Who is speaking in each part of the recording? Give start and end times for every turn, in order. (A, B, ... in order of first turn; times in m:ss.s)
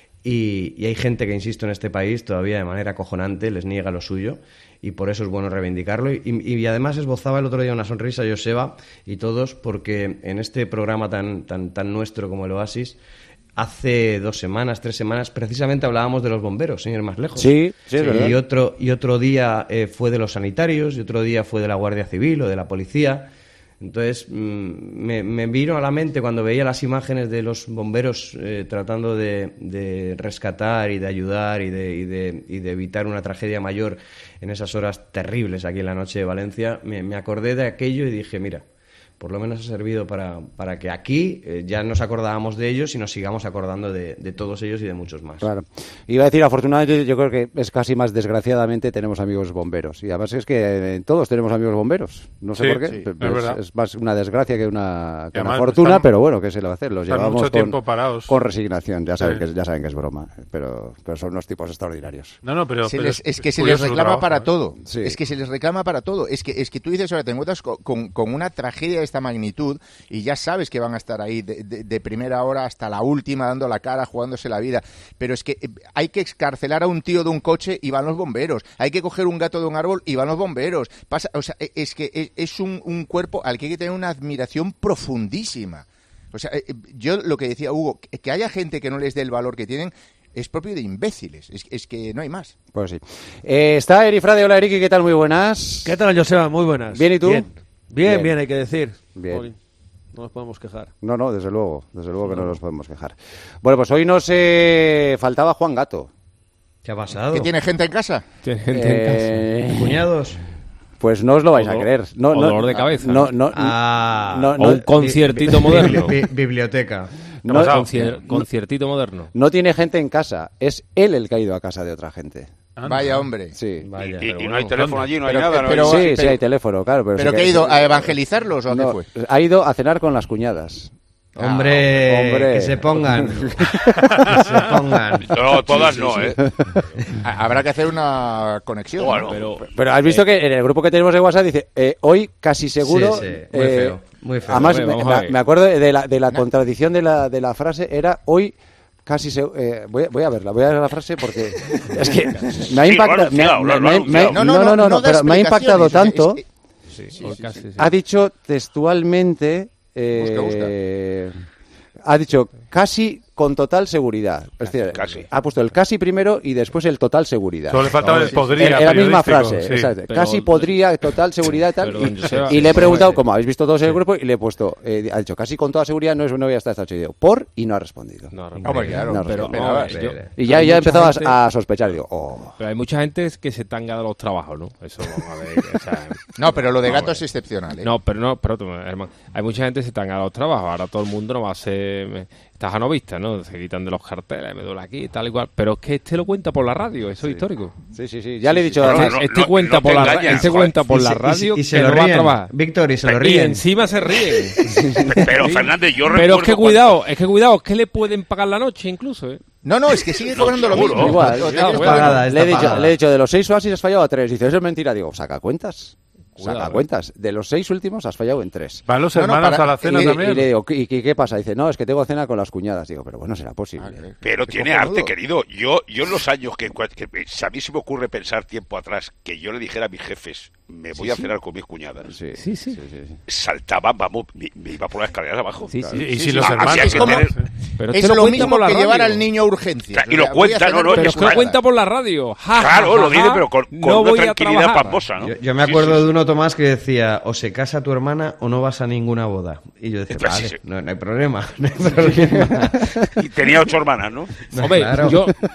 0:00.2-0:13.0 A
0:13.6-0:23.3 A
0:17.4-0:18.4 B
0:23.8-0:38.6 A
0:39.2-0:45.5 A
0:45.4-1:02.4 B
0:52.6-0:53.6 C
0:55.3-0:56.1 C
0:57.1-0:58.3 C
1:02.4-1:04.5 C
1:02.8-1:32.5 D
1:04.8-1:05.2 B
1:32.7-1:36.0 B
1:35.8-1:39.6 E
1:36.9-1:37.5 B
1:38.0-1:38.4 B
1:39.2-1:39.5 B
1:40.1-1:40.9 E
1:41.0-1:46.1 B
1:46.8-1:47.5 A
1:47.3-1:48.2 D
1:48.4-1:49.4 F
1:48.7-1:50.1 B
1:49.7-1:50.4 A
1:51.0-1:54.9 B
1:51.5-1:53.3 F
1:53.5-1:57.1 A
1:54.6-1:56.2 F
1:57.4-1:58.4 B
1:57.5-1:59.3 F
1:57.5-1:57.8 C
1:59.3-2:02.5 B
2:02.8-2:03.2 C
2:02.8-2:03.5 D
2:03.5-2:03.9 B
2:03.8-2:04.3 A
2:04.0-2:06.3 G
2:04.2-2:04.9 F
2:04.7-2:05.1 C
2:05.2-2:06.3 D
2:05.6-2:08.1 B
2:07.2-2:09.0 D
2:08.7-2:13.5 B
2:11.4-2:15.9 A
2:15.2-2:16.4 G
2:15.9-2:16.3 D
2:17.2-2:19.4 D
2:19.0-2:19.4 G
2:19.2-2:20.3 F
2:19.6-2:36.4 B
2:22.8-2:24.9 A
2:24.5-2:25.3 F
2:32.7-2:34.4 G
2:34.2-2:36.4 D
2:36.9-2:37.9 F
2:37.7-2:41.4 B
2:40.1-2:40.7 D
2:42.0-3:02.6 B
2:44.9-2:45.3 G
2:47.7-2:49.9 C
2:48.1-2:48.4 F
2:50.1-2:50.8 F
2:51.8-2:53.2 F
2:52.7-2:53.2 A
2:58.3-3:01.4 F
2:58.6-3:00.0 D
2:59.9-3:00.3 A
3:02.6-3:07.2 F
3:06.4-3:07.9 D
3:07.8-3:17.7 F
3:17.2-3:19.2 B
3:18.5-3:22.5 F
3:18.8-3:21.0 G
3:21.3-3:23.6 A
3:23.0-3:24.7 F
3:24.6-3:25.4 B
3:25.1-3:27.0 G
3:25.4-3:29.4 F
3:29.6-3:32.8 D
3:30.2-3:31.3 G
3:30.9-3:38.8 B
3:31.3-3:32.0 F
3:31.7-3:32.9 A
3:36.4-3:36.8 F
3:38.9-3:40.5 C
3:39.1-3:40.3 D
3:39.9-3:44.0 B
3:43.8-3:45.1 D
3:44.2-3:52.1 G
3:52.1-3:53.2 B
3:52.4-3:52.8 F
3:53.3-3:55.7 G
3:55.7-3:56.0 F
3:55.7-3:56.0 B
3:55.9-3:57.5 C
3:56.1-3:57.3 D
3:56.3-3:57.3 G
3:57.8-3:59.3 F
3:57.9-4:01.6 D
3:59.9-4:01.5 G
4:00.9-4:05.1 F
4:02.6-4:06.1 G
4:05.2-4:12.9 A
4:10.1-4:10.6 G
4:13.2-4:14.3 G
4:14.5-4:15.2 A
4:14.6-4:15.4 F